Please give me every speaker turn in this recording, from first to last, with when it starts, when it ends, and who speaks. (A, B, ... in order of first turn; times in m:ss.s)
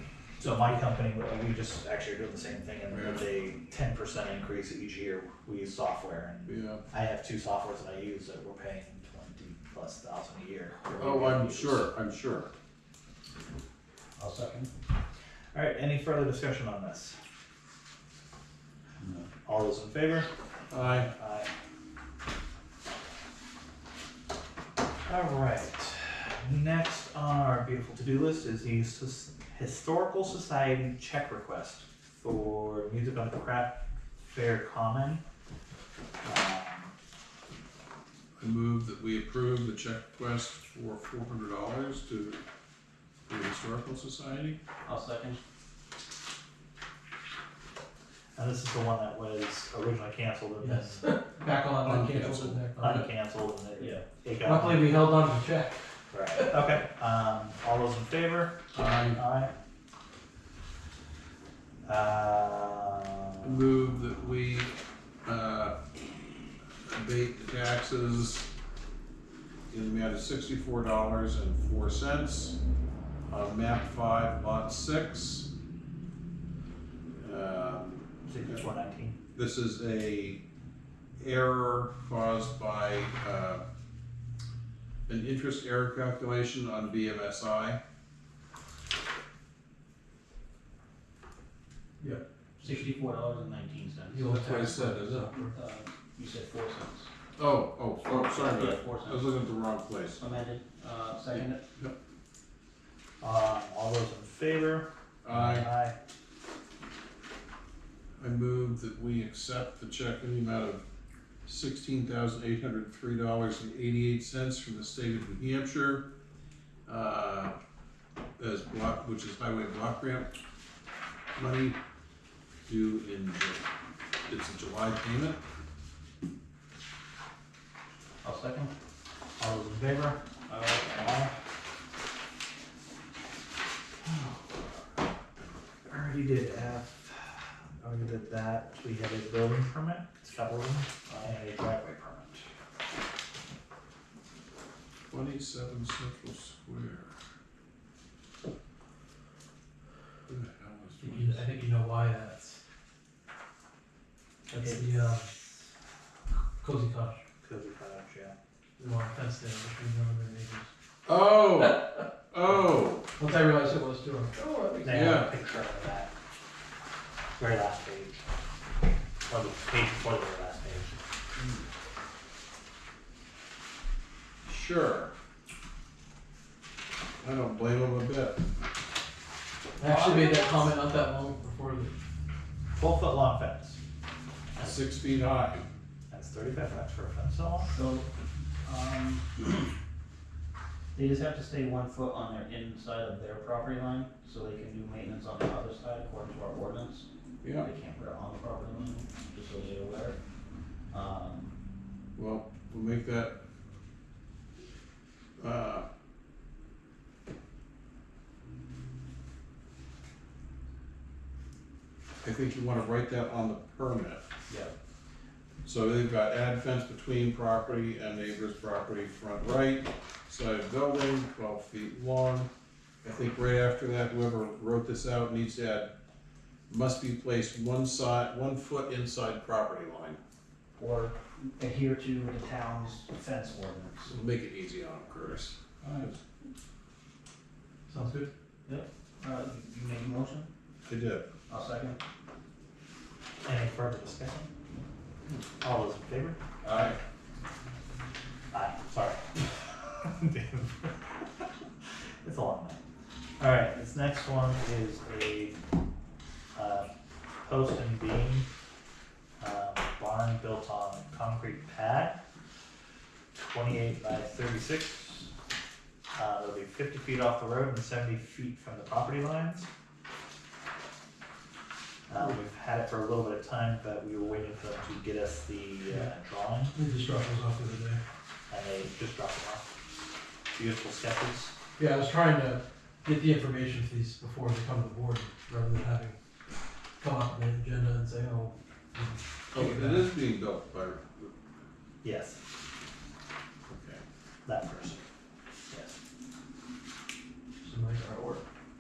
0:00.4-0:11.8 A
0:02.9-0:03.2 B
0:06.5-0:06.8 B
0:10.9-0:12.5 B
0:14.2-0:14.7 C
0:15.5-0:17.2 A
0:19.0-0:19.3 C
0:19.4-0:21.5 A
0:20.7-0:21.1 B
0:25.1-0:33.7 A
0:34.2-0:35.2 A
0:36.2-0:36.9 A
0:38.4-0:42.4 B
0:43.3-0:44.6 B
0:44.8-0:45.4 C
0:48.4-0:51.0 A
0:50.6-0:53.1 D
0:51.8-0:52.6 B
0:52.8-0:55.1 A
0:53.8-0:54.0 C
0:54.4-0:55.8 D
0:56.1-0:59.5 A
0:58.7-0:59.2 B
1:01.8-1:03.6 A
1:03.4-1:05.8 B
1:06.9-1:08.5 B
1:09.7-1:12.6 B
1:13.3-1:15.5 B
1:17.2-1:18.6 B
1:18.2-1:19.2 A
1:19.4-1:20.4 B
1:21.2-1:23.6 B
1:25.1-1:27.8 B
1:32.0-1:32.9 D
1:32.6-1:34.3 C
1:34.1-1:35.5 D
1:34.2-1:35.3 B
1:35.5-1:37.1 C
1:37.4-1:40.2 B
1:38.0-1:39.4 C
1:40.2-1:41.6 C
1:41.3-1:42.0 B
1:43.2-1:46.0 A
1:45.2-1:45.7 B
1:48.2-1:50.8 B
1:51.5-1:56.0 B
1:56.9-1:57.6 B
1:58.4-2:00.3 B
2:01.4-2:01.8 B
2:02.7-2:03.7 B
2:04.3-2:05.4 B
2:08.2-2:08.7 C
2:09.4-2:10.2 A
2:10.5-2:10.9 C
2:10.8-2:11.3 A
2:14.0-2:14.5 A
2:15.9-2:22.5 A
2:25.1-2:27.1 B
2:30.3-2:31.5 B
2:31.0-2:32.6 D
2:34.5-2:35.3 D
2:36.6-2:37.2 D
2:37.4-2:38.4 A
2:38.8-2:40.7 D
2:41.1-2:43.1 B
2:43.2-2:45.1 D
2:44.8-2:46.1 A
2:44.9-2:45.3 B
2:47.4-2:48.2 A
2:49.3-2:51.0 A
2:51.4-2:51.6 B
2:54.4-2:55.1 B
2:57.2-2:58.4 B
2:59.8-3:01.9 D
2:59.9-3:00.2 A
3:02.7-3:03.8 A
3:04.6-3:05.7 B
3:06.1-3:07.7 A
3:07.7-3:08.1 C
3:08.6-3:09.7 C
3:11.0-3:17.1 C
3:17.4-3:17.7 B
3:17.6-3:20.2 C
3:20.9-3:21.5 C
3:22.2-3:23.4 B
3:25.4-3:25.9 B
3:32.2-3:34.2 B
3:34.5-3:34.7 C
3:35.6-3:42.5 B
3:43.0-3:45.9 B
3:46.7-3:50.2 B
3:50.8-3:54.2 C
3:54.1-3:55.6 B
3:55.8-3:56.2 C
3:57.9-3:58.3 D
3:58.7-4:00.5 C
4:00.8-4:01.2 B
4:01.5-4:02.0 C
4:03.4-4:04.5 A
4:05.6-4:07.0 A
4:06.6-4:07.0 B
4:08.5-4:11.5 A
4:12.2-4:12.8 A
4:13.4-4:15.6 A
4:16.6-4:16.9 A
4:17.4-4:18.5 A
4:19.4-4:22.2 A
4:23.3-4:25.3 A
4:26.1-4:29.7 A
4:32.1-4:36.8 A
4:36.7-4:38.0 D
4:38.5-4:39.6 A
4:40.5-4:41.5 A
4:41.8-4:46.2 D
4:47.0-4:50.1 D
4:49.5-4:51.3 B
4:52.0-4:52.4 A
4:53.7-4:54.0 B
4:54.4-4:55.0 A
4:55.7-4:56.0 A
4:57.6-4:58.4 D